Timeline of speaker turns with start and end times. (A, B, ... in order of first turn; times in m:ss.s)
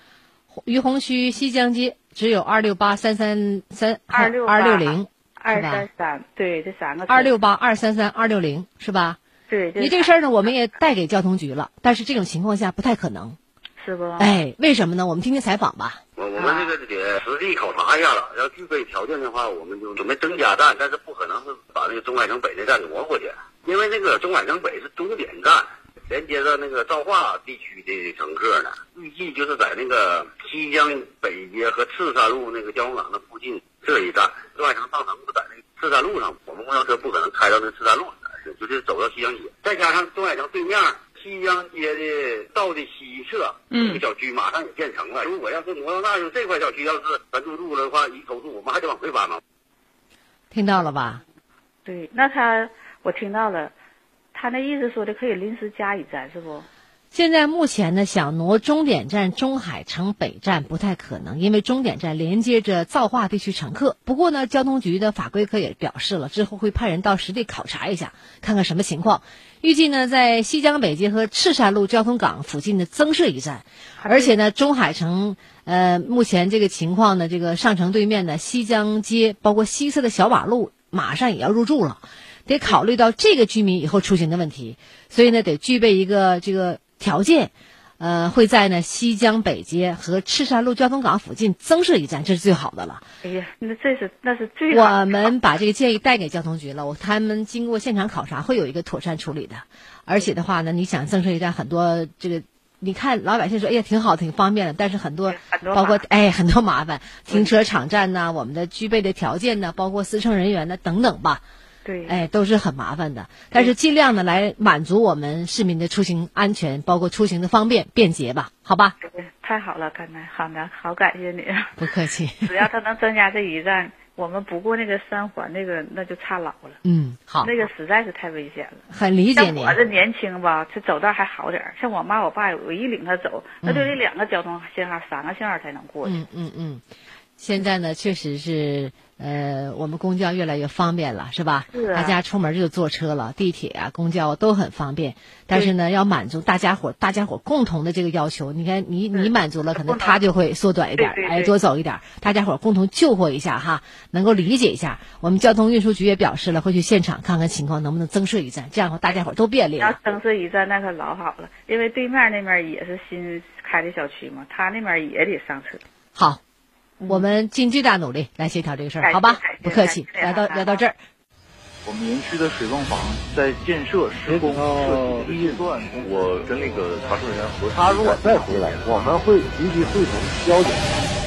0:00.5-0:05.8 A
0:04.1-0:07.3 B
0:07.1-0:09.2 A
0:09.5-0:10.1 B
0:09.8-0:13.4 A
0:13.8-0:14.3 B
0:14.2-0:16.0 A
0:16.2-0:49.4 C
0:16.4-0:16.7 B
0:50.5-0:51.2 A
0:51.8-0:53.7 B
0:54.3-0:56.7 B
0:57.1-1:33.0 A
1:14.0-1:14.3 B
1:33.2-1:35.3 B
1:34.7-1:51.4 A
1:45.3-1:46.0 B
1:51.8-1:52.2 B
1:52.0-1:59.0 A
1:59.0-2:01.7 B
2:01.8-2:02.6 A
2:02.4-2:06.8 B
2:06.8-2:07.5 A
2:07.4-2:08.8 B
2:08.9-2:09.8 A
2:09.4-2:16.2 B
2:13.6-2:13.9 A
2:16.0-2:16.8 A
2:17.4-2:40.0 A
2:21.7-2:22.2 B
2:29.1-2:30.2 B
2:31.0-2:31.4 B
2:39.8-2:45.8 B
2:46.1-2:46.4 A
2:47.0-2:47.2 B
2:47.0-2:51.0 A
2:49.0-2:50.8 B
2:51.8-2:59.0 D
2:57.7-3:01.1 E